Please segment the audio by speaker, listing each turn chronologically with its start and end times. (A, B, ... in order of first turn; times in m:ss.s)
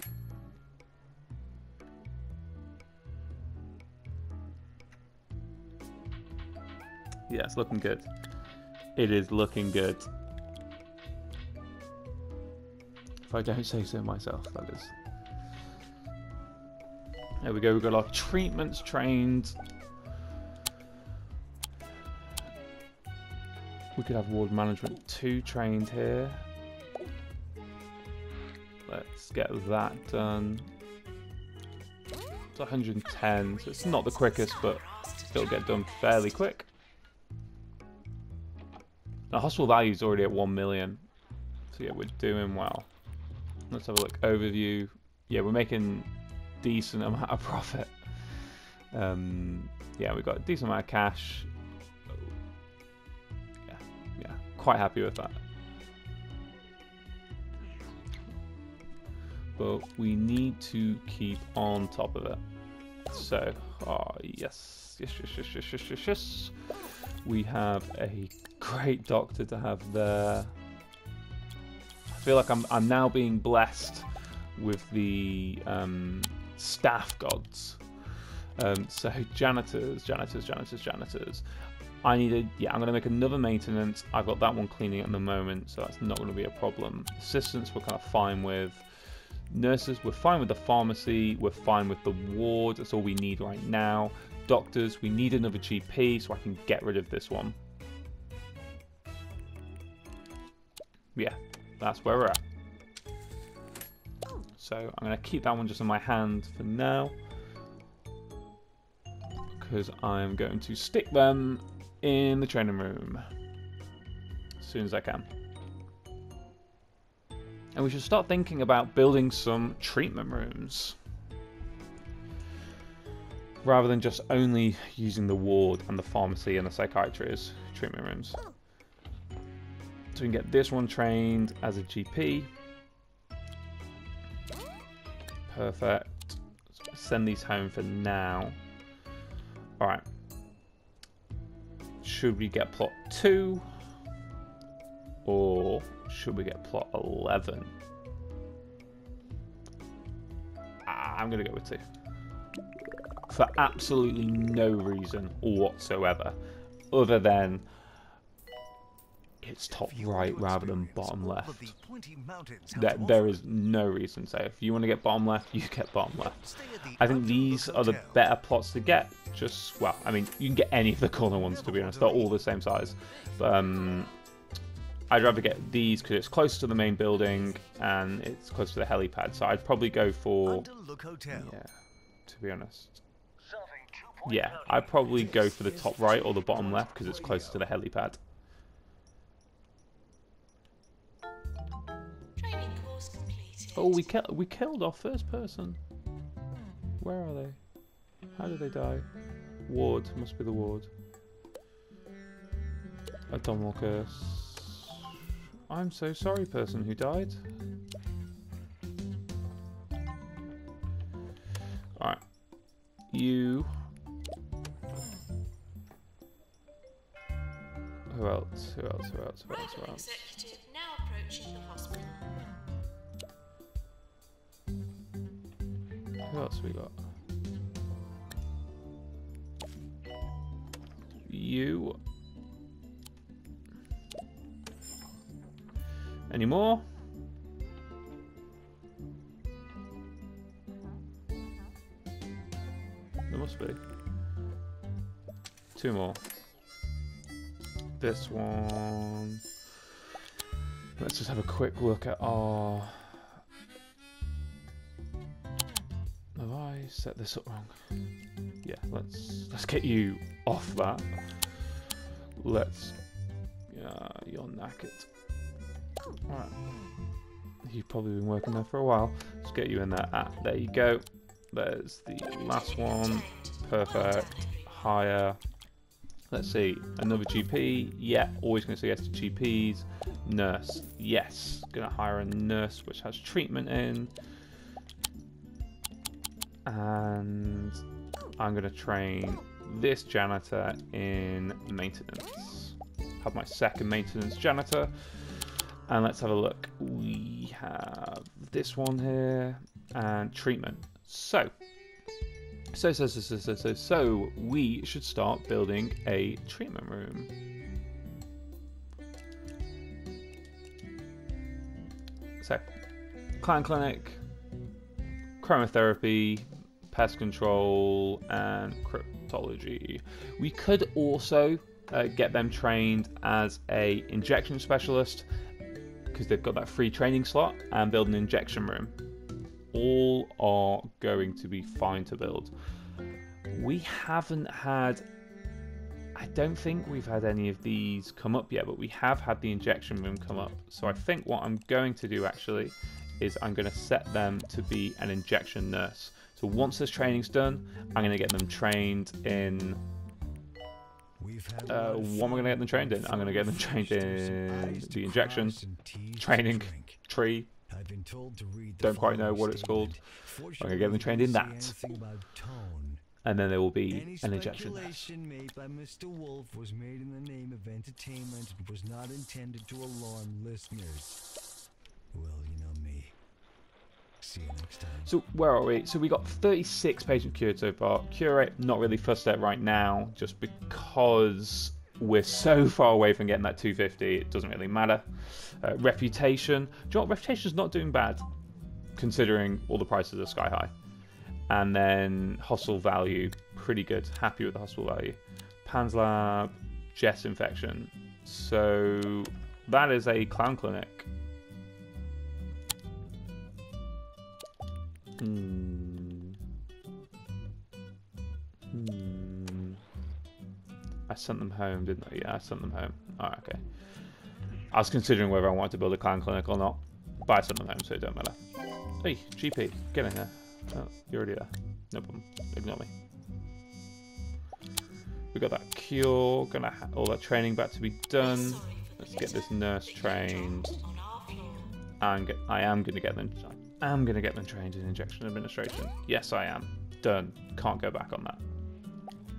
0:07.3-0:08.1 A
0:09.0-0:10.1 A
0:13.3-0:14.9 A
0:17.4-0:19.6 A
0:24.0-0:26.4 A
0:28.9-0:30.7 A
0:32.6-0:36.7 A
0:33.0-0:36.5 B
0:39.3-0:41.1 A
0:41.7-0:42.9 A
0:43.7-0:51.5 A
0:53.7-0:55.4 A
0:59.6-1:02.4 A
1:03.1-1:10.5 A
1:12.1-1:21.4 A
1:22.0-1:37.6 A
1:41.2-1:42.4 A
1:44.6-1:47.2 A
1:49.6-1:53.3 A
1:54.6-1:55.3 A
1:57.7-2:01.0 A
2:03.6-2:08.4 A
2:10.1-2:12.5 A
2:15.5-2:16.4 A
2:16.9-2:18.6 A
2:19.8-2:20.0 A
2:22.0-2:23.7 A
2:25.2-2:27.7 A
2:30.9-2:31.8 A
2:33.3-2:36.4 A
2:36.9-2:37.7 A
2:39.4-2:41.7 A
2:39.7-2:43.4 C
2:42.7-2:54.1 A
2:46.4-2:48.2 C
2:51.4-2:52.6 C
2:53.4-2:53.9 C
2:55.1-3:00.7 A
3:00.4-3:01.6 C
3:01.3-3:03.0 A
3:04.0-3:04.5 C
3:04.2-3:08.2 A
3:05.0-3:07.7 C
3:12.4-3:14.1 B
3:13.8-3:15.8 A
3:17.0-3:17.6 A
3:18.4-3:19.1 A
3:19.7-3:20.9 A
3:23.3-3:25.0 A
3:25.7-3:27.4 A
3:32.0-3:32.2 A
3:33.1-3:33.7 A
3:38.1-3:40.2 A
3:39.5-3:42.3 B
3:46.3-3:47.0 A
3:51.3-3:52.0 A
3:56.3-3:56.8 A
4:03.3-4:03.8 A
4:05.8-4:06.2 A
4:08.0-4:09.4 A
4:11.0-4:13.3 A
4:16.4-4:17.8 A
4:18.6-4:21.5 A
4:22.4-4:23.0 A
4:23.7-4:25.1 A
4:26.3-4:26.6 A
4:27.6-4:35.4 A
4:32.4-4:34.8 B
4:36.3-4:44.1 A
4:46.7-4:47.8 A
4:48.4-5:01.5 A
5:02.7-5:07.3 A
5:12.4-5:12.7 A
5:13.4-5:14.2 A
5:15.4-5:25.3 A
5:26.1-5:29.0 A
5:29.7-5:32.5 A
5:33.5-5:35.0 A
5:36.2-5:49.8 A
5:51.2-5:57.0 C
5:51.7-5:55.6 A
5:56.2-5:57.5 A
5:57.7-6:03.0 C
5:58.8-6:00.0 A
6:00.6-6:01.8 A
6:03.2-6:05.1 A
6:03.9-6:11.2 C
6:12.1-6:13.2 C
6:14.2-6:15.1 C
6:15.1-6:28.2 A
6:29.0-6:30.7 A
6:31.5-6:41.1 A
6:45.2-6:46.4 A
6:48.7-6:49.8 A
6:51.1-6:53.6 A
6:54.7-6:58.4 A
6:59.0-7:02.9 A
7:05.3-7:10.8 A
7:08.2-7:11.8 B
7:12.0-7:18.4 A